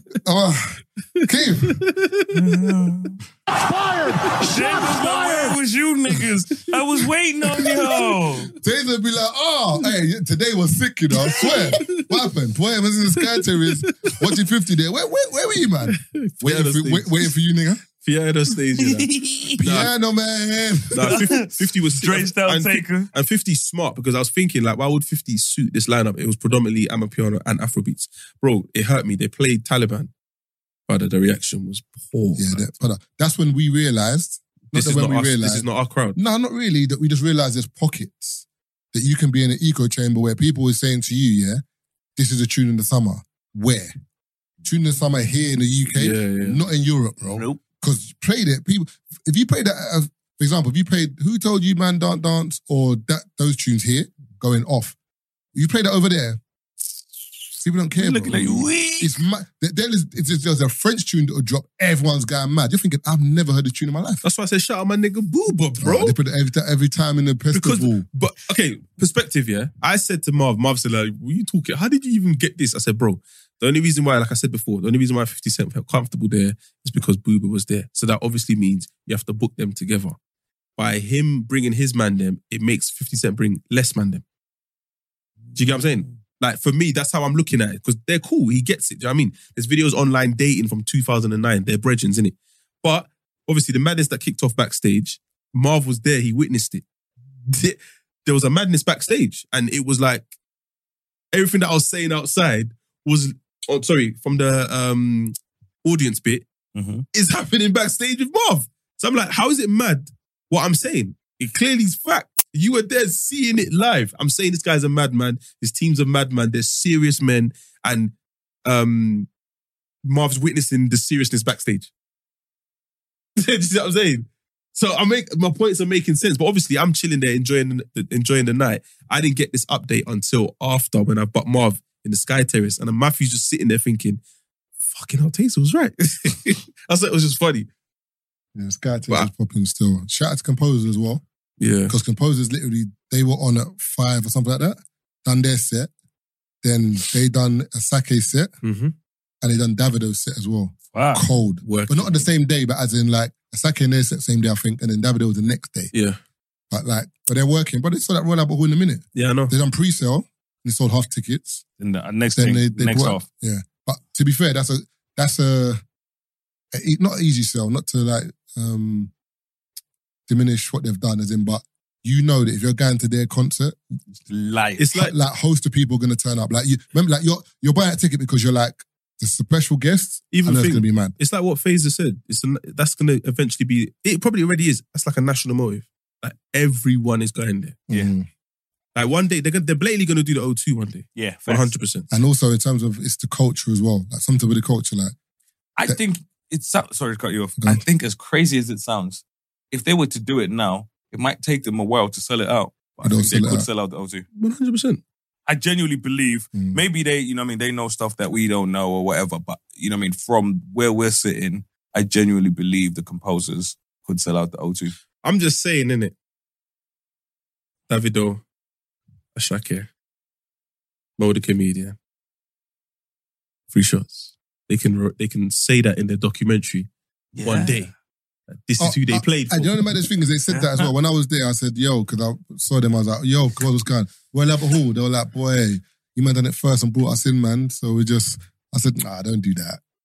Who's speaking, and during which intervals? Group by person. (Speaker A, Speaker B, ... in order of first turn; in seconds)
Speaker A: 0.2-1.8, 8.6-17.8, 19.6-21.2, 32.4-41.6, 42.2-43.9, 44.6-55.0, 55.5-56.4, 57.6-64.2, 65.8-68.1, 138.6-141.2, 141.9-145.9, 146.6-148.5, 149.4-155.9, 156.7-161.6, 162.4-165.8, 166.7-169.1, 170.3-173.8, 174.9-181.1, 187.9-188.3, 192.1-195.1, 203.0-203.7, 206.5-206.8, 228.8-239.8
Speaker B: 1.2-2.4, 5.1-5.5, 11.4-12.1, 13.4-14.3, 15.9-17.3, 18.0-19.9, 20.9-30.1, 30.9-32.7, 34.7-36.2, 46.0-46.6, 64.2-66.2, 67.5-80.2, 80.8-84.2, 85.5-96.8, 97.5-100.3, 101.3-106.5, 107.1-118.1, 118.7-119.3, 120.0-121.9, 123.4-134.2, 134.9-137.7, 141.6-141.9, 148.6-148.9, 151.6-152.3, 155.9-156.2, 159.2-159.6, 174.8-175.1, 180.3-187.8, 188.9-192.1, 204.4-205.0, 215.2-216.1, 217.9-218.4, 219.4-219.9, 221.2-222.0, 223.7-226.9, 227.4-227.9, 228.5-229.7
Speaker C: 2.3-8.5, 11.3-11.5, 18.8-19.6, 21.0-23.1, 47.3-47.6, 58.0-59.1, 85.5-86.1, 106.8-107.0, 150.9-151.3, 161.8-163.2, 174.3-174.8, 191.2-191.8, 195.8-204.2, 205.5-215.0, 227.3-227.9, 230.5-230.9